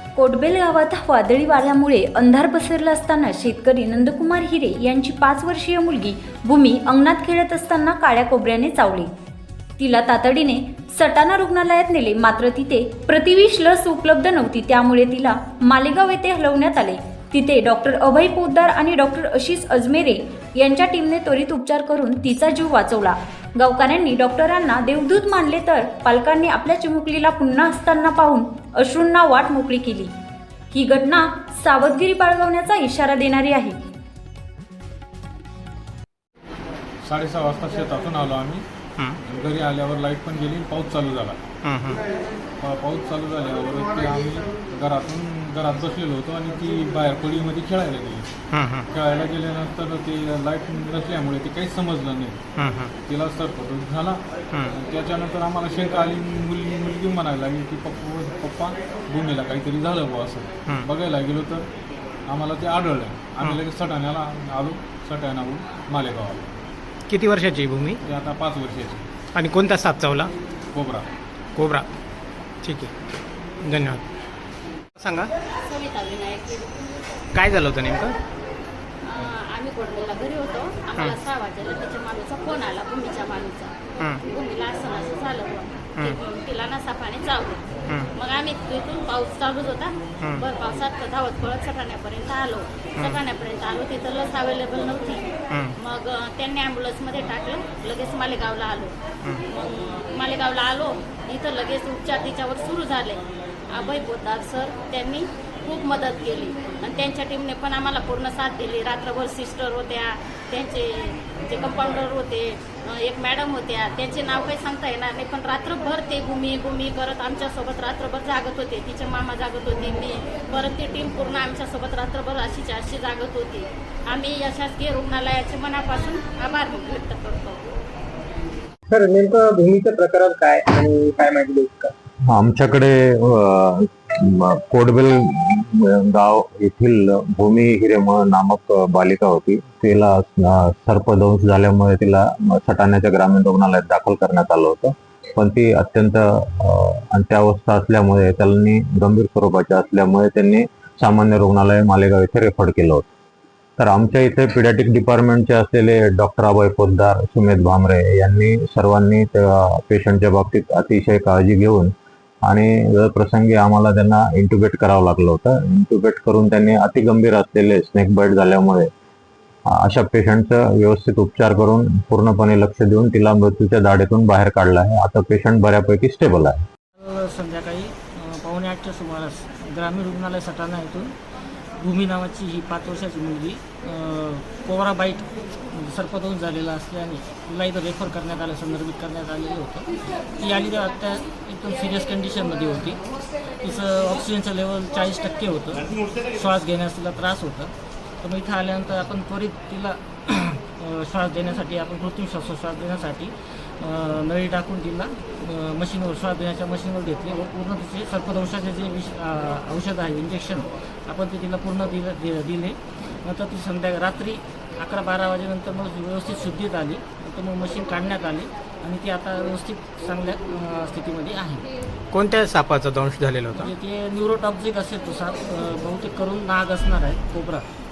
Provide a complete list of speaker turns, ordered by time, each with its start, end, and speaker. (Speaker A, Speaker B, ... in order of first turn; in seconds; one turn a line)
Speaker A: 0.2-9.1
Speaker A: 9.8-30.1
Speaker A: 30.7-33.8
Speaker B: 37.0-38.7
Speaker B: 39.2-41.4
Speaker C: 41.6-42.0
Speaker B: 42.6-48.4
Speaker C: 48.5-48.9
Speaker B: 48.9-52.4
Speaker C: 52.6-52.9
Speaker B: 53.0-61.7
Speaker B: 62.3-66.5
Speaker C: 67.1-68.0
Speaker B: 68.0-69.0
Speaker C: 69.3-70.3
Speaker B: 70.7-71.1
Speaker C: 71.6-71.9
Speaker C: 72.6-72.9
Speaker C: 73.6-74.0
Speaker C: 75.0-75.3
Speaker D: 75.6-76.8
Speaker C: 77.3-78.2
Speaker D: 79.0-99.0
Speaker D: 99.5-127.7
Speaker E: 128.9-131.9
Speaker F: 132.3-153.1
Speaker F: 153.8-161.9
Speaker F: 162.5-168.9
Speaker F: 169.7-176.6
Speaker G: 177.0-181.2
Speaker G: 181.8-221.7
Speaker C: 222.1-223.7
Speaker G: 223.5-227.7